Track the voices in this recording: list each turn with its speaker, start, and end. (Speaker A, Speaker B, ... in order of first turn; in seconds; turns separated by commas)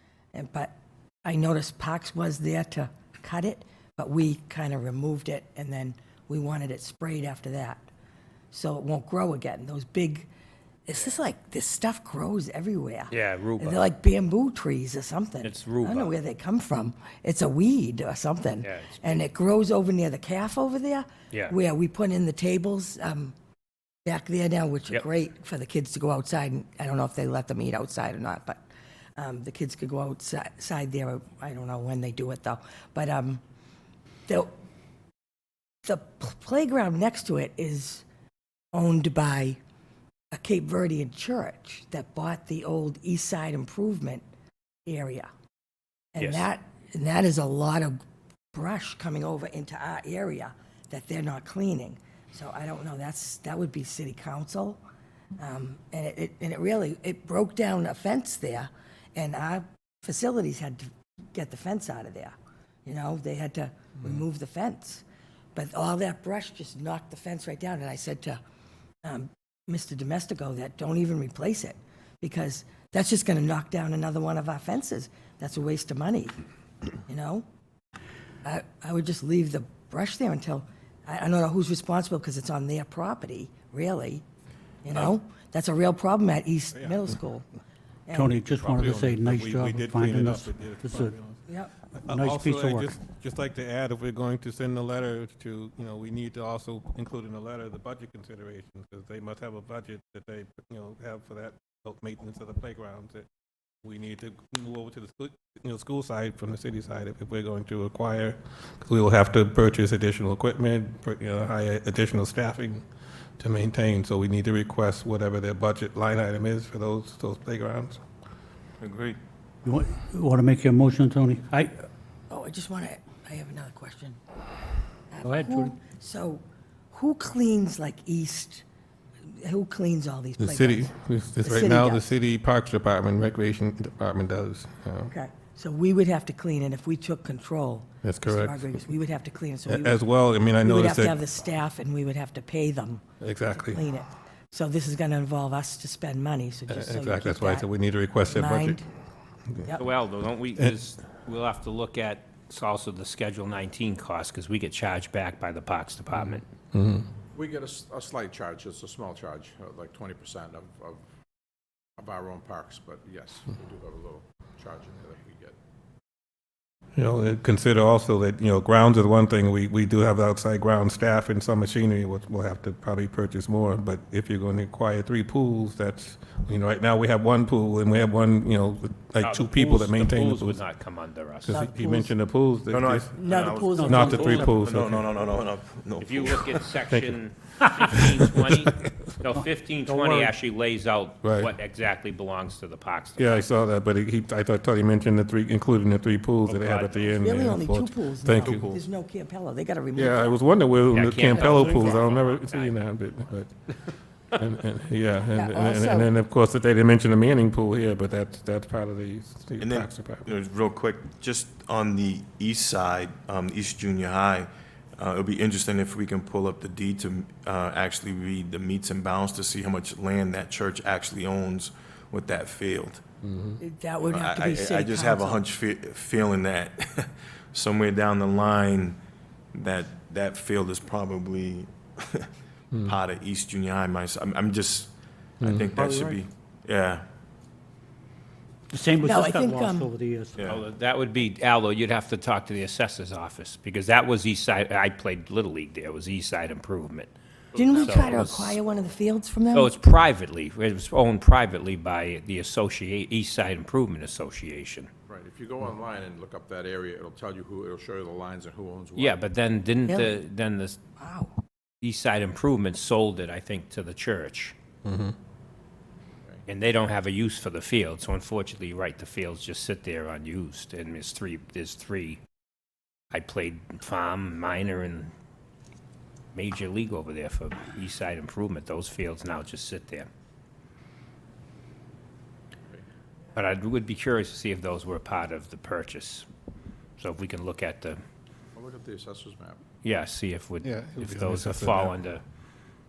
Speaker A: 0.3-0.7, Speaker A: 1.2-7.8, Speaker A: 8.5-10.3, Speaker A: 10.9-23.3, Speaker B: 13.1-13.9, Speaker B: 15.4-16.1, Speaker B: 18.6-19.2, Speaker A: 24.1-28.6, Speaker A: 29.2-33.4, Speaker A: 35.8-38.0, Speaker A: 38.7-39.6, Speaker A: 40.3-44.2, Speaker A: 44.9-45.3, Speaker A: 46.1-48.0, Speaker B: 46.2-46.5, Speaker A: 48.5-54.8, Speaker A: 55.4-65.0, Speaker A: 65.5-68.4, Speaker A: 69.0-76.3, Speaker A: 77.1-77.4, Speaker A: 78.4-84.2, Speaker A: 84.8-87.5, Speaker C: 86.7-87.1, Speaker A: 88.1-88.4, Speaker D: 88.1-91.1, Speaker C: 88.5-91.4, Speaker A: 91.5-91.7, Speaker C: 91.9-103.3, Speaker D: 92.1-92.9, Speaker C: 103.8-112.8, Speaker C: 113.4-118.0, Speaker E: 118.8-119.2, Speaker D: 119.6-121.8, Speaker A: 122.3-124.2, Speaker A: 125.1-128.6, Speaker D: 125.2-125.7, Speaker A: 129.3-132.1, Speaker C: 130.4-135.1, Speaker A: 135.1-140.0, Speaker C: 138.0-138.7, Speaker C: 139.7-141.2, Speaker A: 140.6-143.0, Speaker C: 143.2-143.8, Speaker A: 143.5-147.7, Speaker C: 146.7-148.8, Speaker A: 148.3-148.9, Speaker B: 149.8-156.4, Speaker C: 156.4-157.1, Speaker F: 157.3-161.0, Speaker F: 162.0-165.6, Speaker C: 167.0-180.6, Speaker B: 179.2-181.6, Speaker C: 181.4-183.2, Speaker A: 181.5-182.1, Speaker E: 182.7-186.6, Speaker A: 183.2-184.6, Speaker D: 183.8-184.2, Speaker C: 183.8-185.1, Speaker B: 186.0-193.4, Speaker C: 186.9-189.1, Speaker D: 189.9-190.3, Speaker C: 191.2-191.5, Speaker C: 193.2-198.8, Speaker B: 196.4-197.2, Speaker A: 197.2-200.4, Speaker C: 200.0-203.7, Speaker B: 200.9-203.0, Speaker C: 204.3-210.3, Speaker A: 205.3-206.1, Speaker E: 209.6-223.0, Speaker C: 223.2-223.6, Speaker A: 223.6-225.4, Speaker E: 224.0-229.0, Speaker E: 229.5-232.3, Speaker E: 232.8-237.1, Speaker C: 235.4-235.8, Speaker D: 235.7-236.2, Speaker D: 238.7-240.4, Speaker A: 239.0-239.9, Speaker E: 240.4-240.6, Speaker B: 240.4-247.1, Speaker F: 247.6-248.3, Speaker A: 247.6-249.7, Speaker B: 247.7-248.6, Speaker B: 249.5-254.9, Speaker F: 255.1-259.2, Speaker B: 258.9-260.8, Speaker A: 259.9-260.2, Speaker A: 261.0-261.3, Speaker B: 261.8-264.5, Speaker C: 264.8-265.1, Speaker B: 266.4-272.2, Speaker B: 273.1-275.1, Speaker B: 276.3-280.1, Speaker B: 283.3-286.2, Speaker B: 287.0-288.0, Speaker F: 288.6-289.6, Speaker B: 289.8-292.2, Speaker C: 290.6-291.9